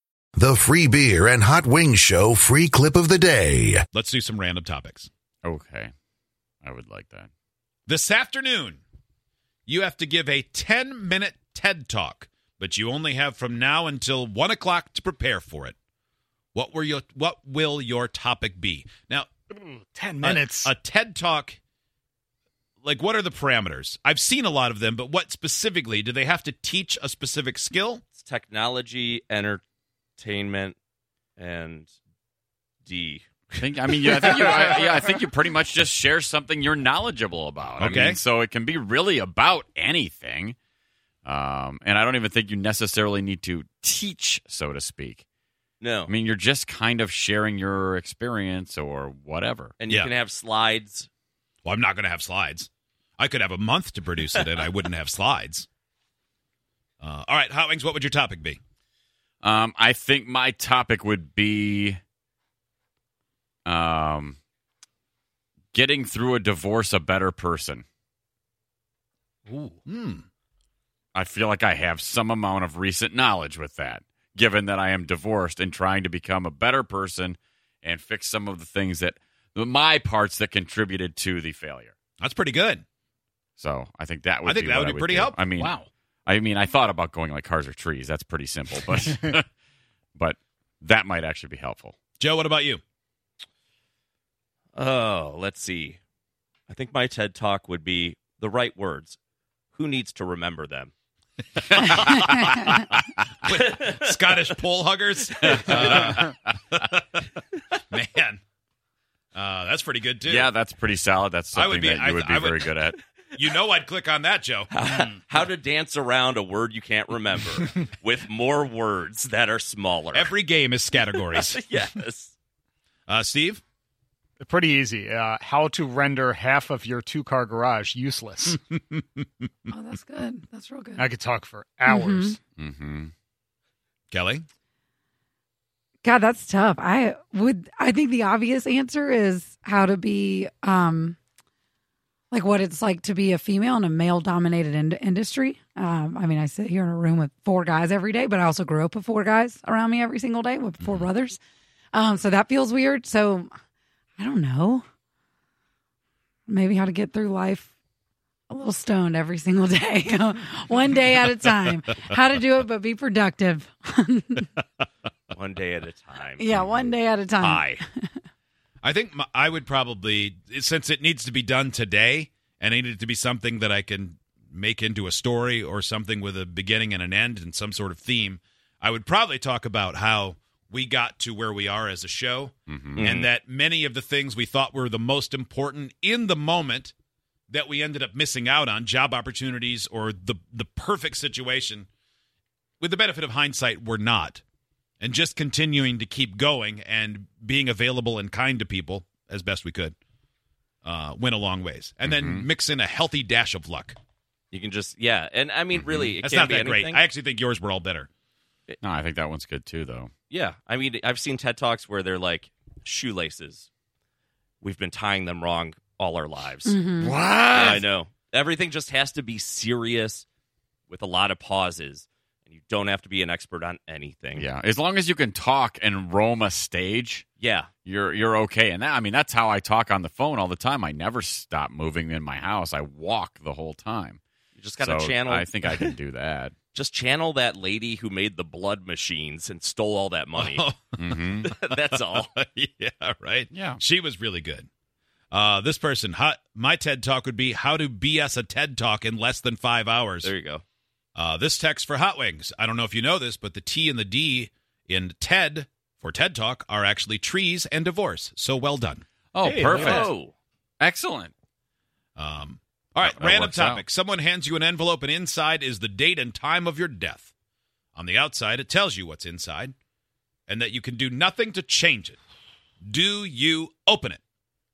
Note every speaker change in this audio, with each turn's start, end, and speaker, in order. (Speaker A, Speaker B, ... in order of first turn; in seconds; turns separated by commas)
Speaker A: 0.3-3.9, Speaker B: 3.9-5.1, Speaker C: 5.4-5.9, Speaker C: 6.6-7.3, Speaker B: 7.9-8.8, Speaker B: 9.7-15.8, Speaker B: 16.5-19.3, Speaker D: 19.6-20.7, Speaker B: 20.2-21.6, Speaker B: 22.8-28.0, Speaker E: 28.1-29.6, Speaker E: 30.2-30.8, Speaker E: 31.4-31.9, Speaker E: 32.9-33.3, Speaker C: 33.6-40.6, Speaker E: 34.2-34.7, Speaker B: 37.8-38.2, Speaker C: 41.2-45.2, Speaker E: 45.8-46.1, Speaker C: 46.1-49.7, Speaker E: 49.8-51.1, Speaker B: 51.6-55.7, Speaker E: 54.3-54.7, Speaker B: 57.0-58.6, Speaker C: 59.4-62.0, Speaker C: 63.7-64.4, Speaker C: 65.7-67.8, Speaker D: 69.5-69.8, Speaker B: 69.8-70.3, Speaker C: 71.2-81.9, Speaker B: 82.2-82.8, Speaker C: 83.6-89.5, Speaker B: 84.5-85.5, Speaker D: 85.6-85.9, Speaker C: 90.2-92.0, Speaker B: 92.2-92.8, Speaker E: 94.8-96.0, Speaker E: 96.7-99.2, Speaker E: 99.8-100.9, Speaker B: 101.7-102.2, Speaker B: 103.5-107.0, Speaker E: 103.5-104.4, Speaker C: 105.5-106.3, Speaker B: 107.9-108.4, Speaker B: 109.3-110.5, Speaker C: 110.2-113.0, Speaker B: 111.6-112.6, Speaker B: 113.4-114.7, Speaker E: 114.7-120.3, Speaker B: 120.1-121.6, Speaker E: 121.0-122.3, Speaker B: 123.1-123.6, Speaker D: 124.4-128.6, Speaker B: 128.6-129.3, Speaker F: 129.7-131.1, Speaker D: 131.0-132.4, Speaker F: 131.9-132.4, Speaker C: 132.6-133.1, Speaker B: 134.1-134.4, Speaker F: 136.0-141.2, Speaker F: 142.3-151.4, Speaker F: 151.9-153.5, Speaker F: 154.2-154.8, Speaker F: 156.5-157.7, Speaker F: 158.5-164.5, Speaker E: 165.3-166.6, Speaker F: 166.4-168.2, Speaker E: 167.4-167.8, Speaker B: 168.8-186.9, Speaker C: 182.7-183.0, Speaker E: 183.0-183.3, Speaker B: 187.5-191.9, Speaker B: 192.8-194.4, Speaker B: 195.0-200.0, Speaker B: 200.8-204.0, Speaker C: 202.1-202.5, Speaker E: 204.5-207.0, Speaker C: 205.8-206.1, Speaker B: 206.2-208.1, Speaker C: 208.8-210.1, Speaker E: 210.3-213.7, Speaker E: 214.6-216.8, Speaker F: 216.7-217.2, Speaker C: 217.0-217.8, Speaker E: 217.5-220.2, Speaker E: 220.9-224.5, Speaker C: 224.3-227.2, Speaker E: 227.4-227.7, Speaker C: 227.8-234.2, Speaker E: 234.6-235.9, Speaker C: 234.8-236.6, Speaker E: 236.7-240.7, Speaker B: 240.4-241.6, Speaker C: 241.0-241.5, Speaker E: 241.6-242.5, Speaker B: 242.2-244.7, Speaker C: 243.5-243.8, Speaker B: 245.3-250.3, Speaker E: 250.2-250.6, Speaker B: 251.2-259.0, Speaker C: 259.3-260.1, Speaker D: 259.4-260.1, Speaker E: 259.7-260.4, Speaker C: 260.8-261.3, Speaker B: 262.2-267.3, Speaker C: 263.0-263.8, Speaker B: 267.9-269.8, Speaker B: 270.5-272.2, Speaker B: 272.9-274.2